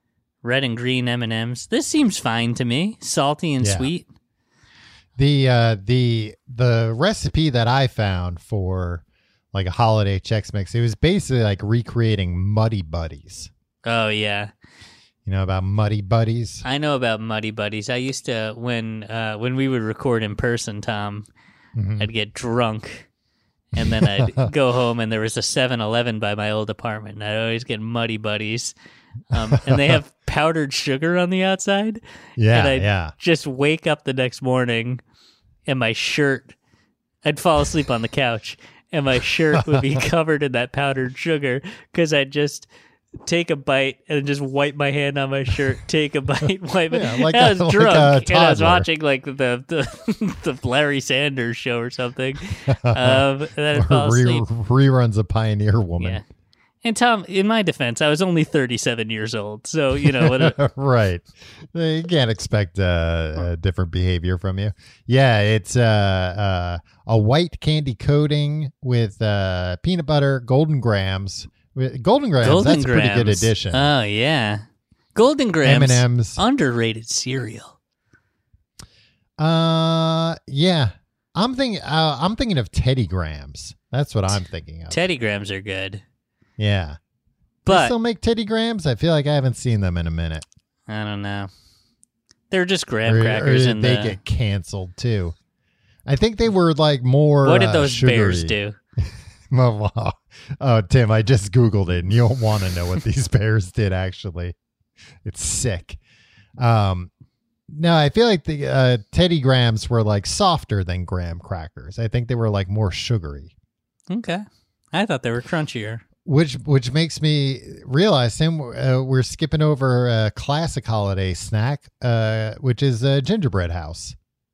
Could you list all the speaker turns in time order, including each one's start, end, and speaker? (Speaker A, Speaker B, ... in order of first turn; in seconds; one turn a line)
Speaker A: 0.4-4.0
Speaker B: 3.6-3.9
Speaker B: 5.2-13.5
Speaker A: 13.8-14.5
Speaker B: 15.2-16.6
Speaker A: 16.6-21.3
Speaker B: 21.7-22.1
Speaker A: 22.0-23.1
Speaker A: 23.7-28.7
Speaker B: 23.8-24.5
Speaker A: 29.3-35.0
Speaker B: 29.5-30.0
Speaker B: 32.4-33.1
Speaker A: 35.6-36.5
Speaker A: 37.2-42.7
Speaker B: 39.6-40.0
Speaker A: 43.2-54.4
Speaker B: 46.9-48.9
Speaker B: 52.7-56.2
Speaker A: 56.0-56.2
Speaker A: 56.8-60.6
Speaker B: 60.0-73.9
Speaker A: 72.4-74.6
Speaker A: 75.1-77.8
Speaker B: 75.6-76.4
Speaker B: 79.4-85.0
Speaker A: 84.9-86.0
Speaker B: 86.6-87.0
Speaker A: 87.6-87.9
Speaker B: 87.7-90.4
Speaker A: 90.9-91.5
Speaker A: 92.5-94.2
Speaker B: 93.0-95.3
Speaker B: 96.0-98.5
Speaker A: 97.4-98.8
Speaker B: 99.5-104.5
Speaker B: 105.2-106.0
Speaker B: 106.6-107.1
Speaker B: 107.7-113.5
Speaker A: 114.1-116.0
Speaker B: 116.2-124.2